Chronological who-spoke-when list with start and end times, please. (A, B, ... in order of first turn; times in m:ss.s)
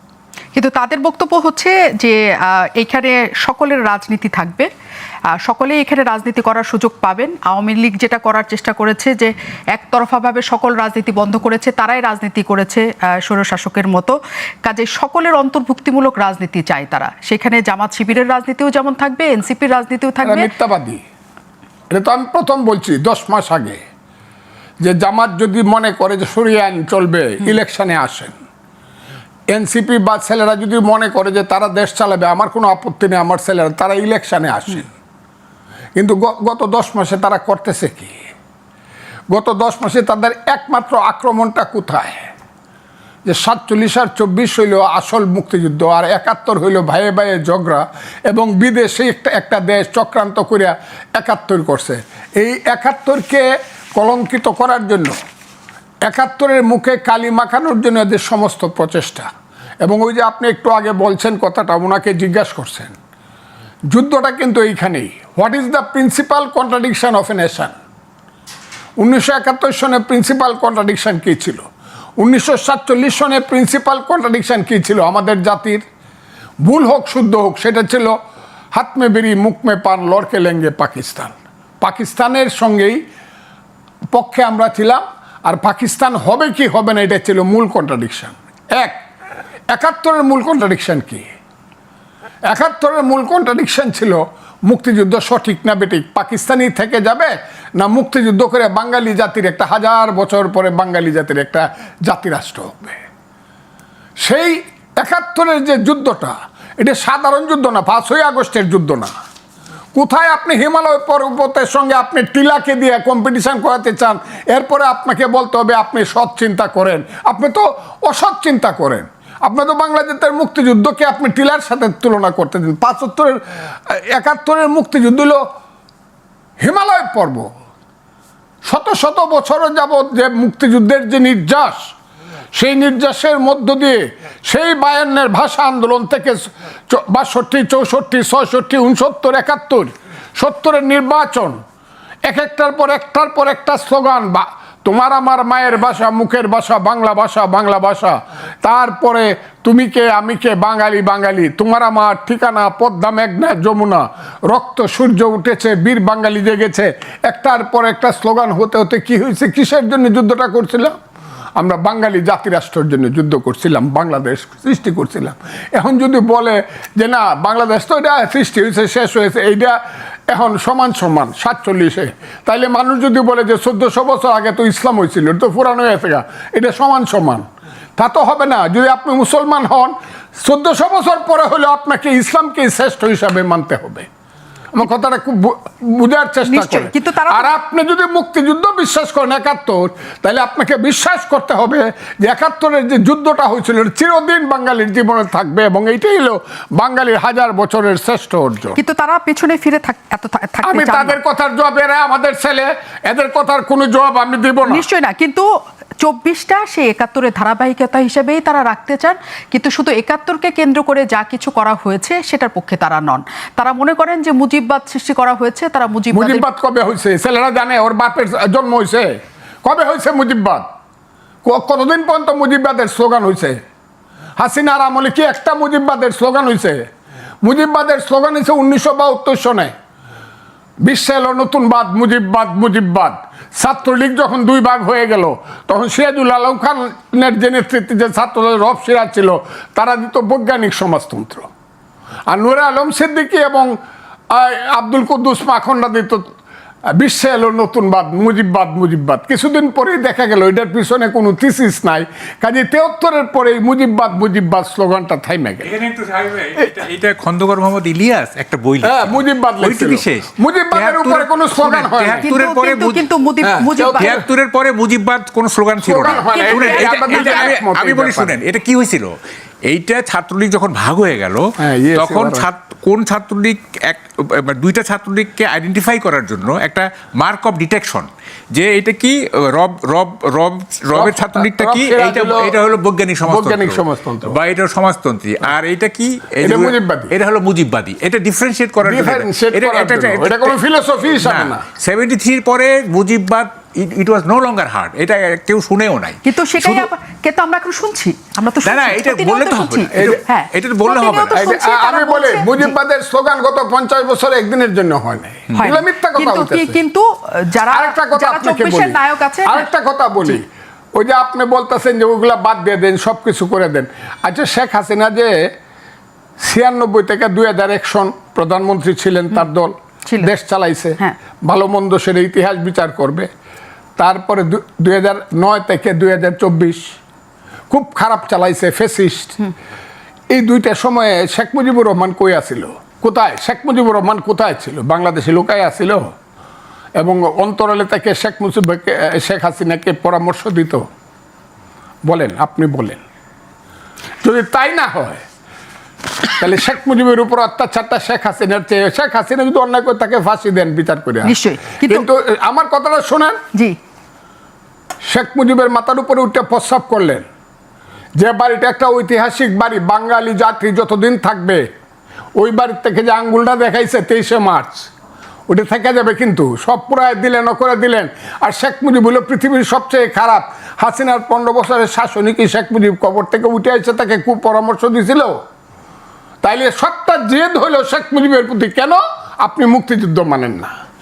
0:00.5-0:04.7 A
0:05.4-0:20.5 A
0:20.2-0:21.0 B
0:21.9-0:23.8 B
0:24.8-0:28.3 B
0:29.5-0:34.9 B
0:36.0-0:38.2 B
0:39.3-0:42.3 B
0:43.2-0:55.1 B
0:56.0-0:59.3 B
0:59.8-1:02.9 B
1:03.9-1:07.7 B
1:09.0-1:11.6 B
1:12.2-1:15.8 B
1:16.6-1:18.1 B
1:18.7-1:23.0 B
1:24.1-1:28.9 B
1:29.7-1:31.3 B
1:32.5-1:43.0 B
1:44.2-1:49.1 B
1:49.9-2:05.4 B
2:06.6-2:07.5 B
2:08.6-2:11.9 B
2:12.5-2:21.6 B
2:22.2-2:40.9 B
2:41.6-2:49.8 B
2:50.3-2:57.4 B
2:58.0-3:04.1 B
3:04.7-3:18.8 B
3:06.4-3:07.5 A
3:18.8-3:21.2 A
3:20.6-3:24.8 B
3:24.6-3:25.4 A
3:26.0-3:36.4 A
3:36.1-3:39.1 B
3:39.6-3:40.6 B
3:41.4-3:43.6 B
3:44.4-3:46.8 B
3:47.4-3:49.7 B
3:50.8-4:01.5 B
4:02.3-4:03.7 B
4:04.3-4:06.2 B
4:07.0-4:15.7 B
4:15.6-4:23.1 C
4:18.8-4:22.3 B
4:22.2-4:24.2 A
4:23.4-4:24.2 B
4:23.9-4:50.6 C
4:25.8-4:28.4 B
4:26.0-4:27.6 A
4:31.6-4:32.5 B
4:40.9-4:42.5 B
4:43.2-4:44.4 B
4:46.4-4:47.1 B
4:48.8-4:51.6 B
4:51.1-4:56.9 C
4:56.2-5:02.7 A
4:58.6-5:01.4 C
4:59.9-5:00.2 B
5:01.3-5:06.8 B
5:05.5-5:05.8 C
5:05.5-5:09.7 A
5:07.7-5:10.4 B
5:10.9-5:15.3 B
5:16.4-5:23.3 B
5:24.0-5:26.8 B
5:27.7-5:29.4 B
5:30.3-5:36.1 B
5:37.0-5:40.9 B
5:42.0-5:43.0 B
5:44.2-5:45.2 B
5:46.3-5:53.4 B
5:51.2-5:52.0 A
5:55.1-5:57.2 B
5:58.2-6:01.6 B
6:02.4-6:04.9 B
6:05.5-6:15.4 B
6:16.4-6:20.7 B